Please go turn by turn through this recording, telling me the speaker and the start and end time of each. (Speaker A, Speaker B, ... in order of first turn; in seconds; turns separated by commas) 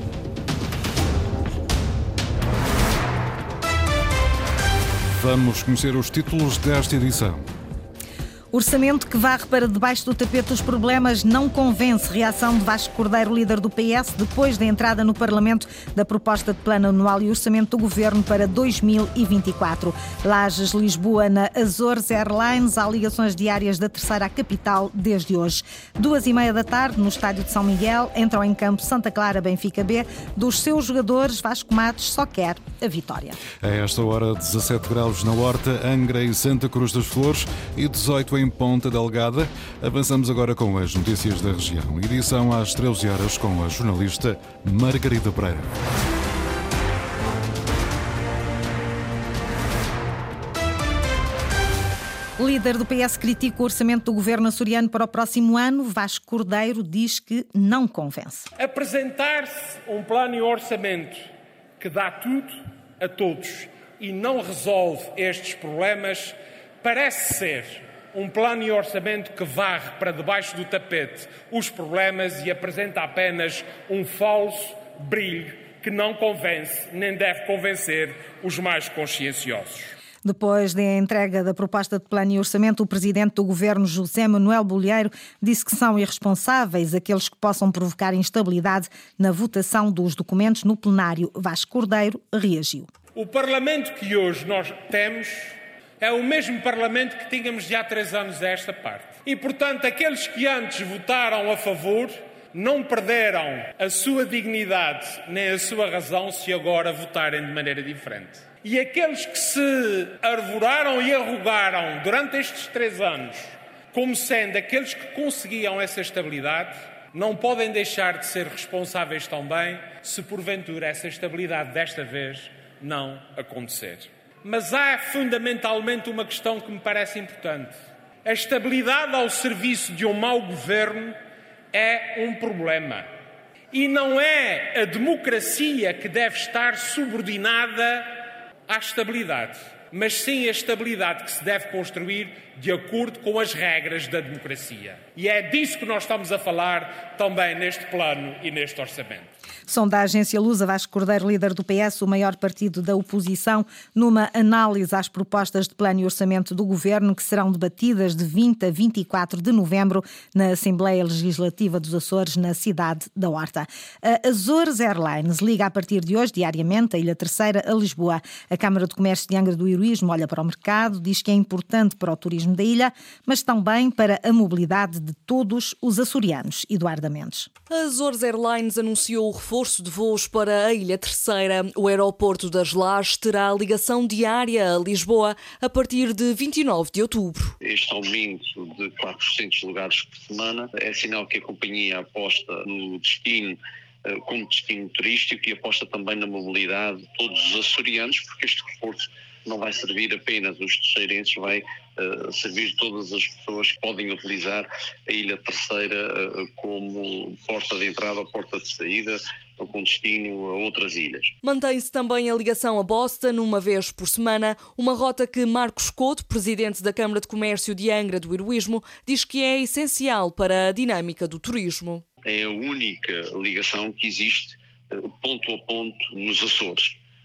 Speaker A: 5.1-7.4, Speaker B: 8.5-33.4, Speaker A: 33.6-45.8, Speaker B: 52.4-58.5, Speaker C: 58.6-61.2, Speaker C: 61.8-79.9, Speaker B: 80.2-92.9, Speaker C: 93.2-131.2, Speaker C: 131.7-133.0, Speaker C: 133.7-138.1, Speaker C: 138.7-149.3, Speaker B: 149.7-177.5, Speaker D: 177.7-187.5, Speaker E: 187.6-193.6, Speaker E: 194.1-211.3, Speaker D: 211.4-222.0, Speaker E: 222.2-227.0